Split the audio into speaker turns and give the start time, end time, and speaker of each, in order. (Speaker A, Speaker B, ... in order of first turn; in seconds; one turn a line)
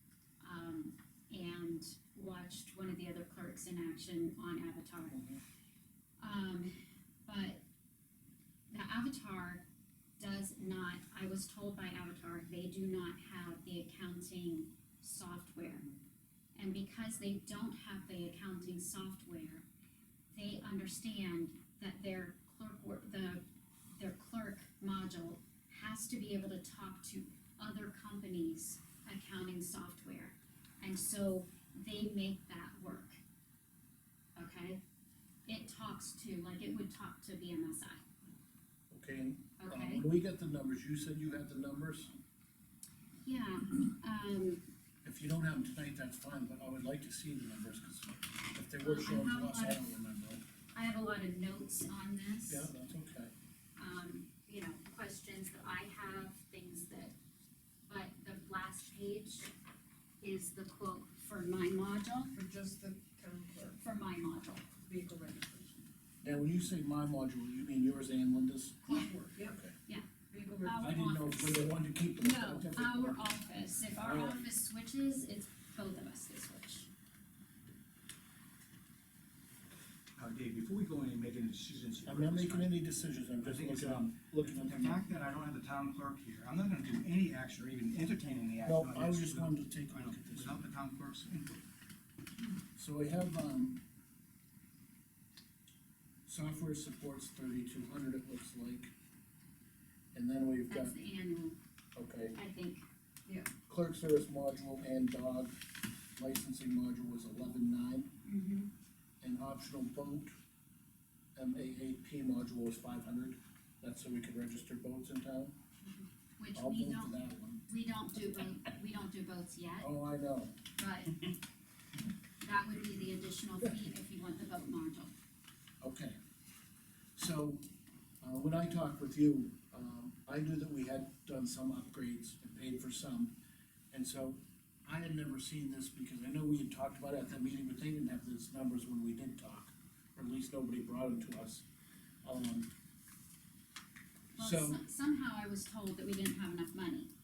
Speaker A: 0.4-5.2
Speaker B: 5.1-5.4
Speaker A: 6.2-6.7
Speaker A: 7.2-7.6
Speaker A: 8.7-9.6
Speaker A: 10.2-15.9
Speaker A: 16.5-19.6
Speaker A: 20.3-23.4
Speaker A: 23.9-33.2
Speaker A: 34.4-34.8
Speaker A: 35.5-38.0
Speaker B: 38.9-42.1
Speaker A: 39.6-40.0
Speaker A: 43.2-44.6
Speaker B: 45.0-50.4
Speaker A: 48.8-49.9
Speaker A: 50.7-52.7
Speaker B: 52.5-53.3
Speaker A: 53.8-57.1
Speaker A: 57.9-59.5
Speaker A: 60.2-62.3
Speaker C: 62.3-63.8
Speaker A: 63.8-64.6
Speaker C: 64.8-65.8
Speaker B: 66.2-68.8
Speaker C: 68.8-69.6
Speaker B: 69.4-69.7
Speaker C: 70.3-70.9
Speaker A: 70.6-76.9
Speaker B: 70.8-73.2
Speaker B: 73.9-74.5
Speaker D: 80.1-82.8
Speaker B: 82.0-85.0
Speaker D: 83.4-91.6
Speaker B: 88.6-90.6
Speaker B: 92.7-93.8
Speaker B: 96.2-98.9
Speaker B: 100.1-100.9
Speaker A: 100.7-101.6
Speaker B: 101.9-102.3
Speaker A: 102.3-102.8
Speaker C: 103.2-103.5
Speaker B: 103.7-105.5
Speaker B: 106.2-108.1
Speaker A: 108.2-108.7
Speaker B: 109.2-110.3
Speaker B: 111.3-115.5
Speaker A: 116.4-119.9
Speaker B: 116.5-117.6
Speaker B: 119.8-120.5
Speaker A: 120.8-121.2
Speaker A: 122.4-125.1
Speaker B: 125.8-126.2
Speaker B: 127.2-127.7
Speaker B: 128.2-133.3
Speaker B: 133.9-141.7
Speaker B: 142.2-142.7
Speaker B: 144.3-144.8
Speaker A: 144.3-147.1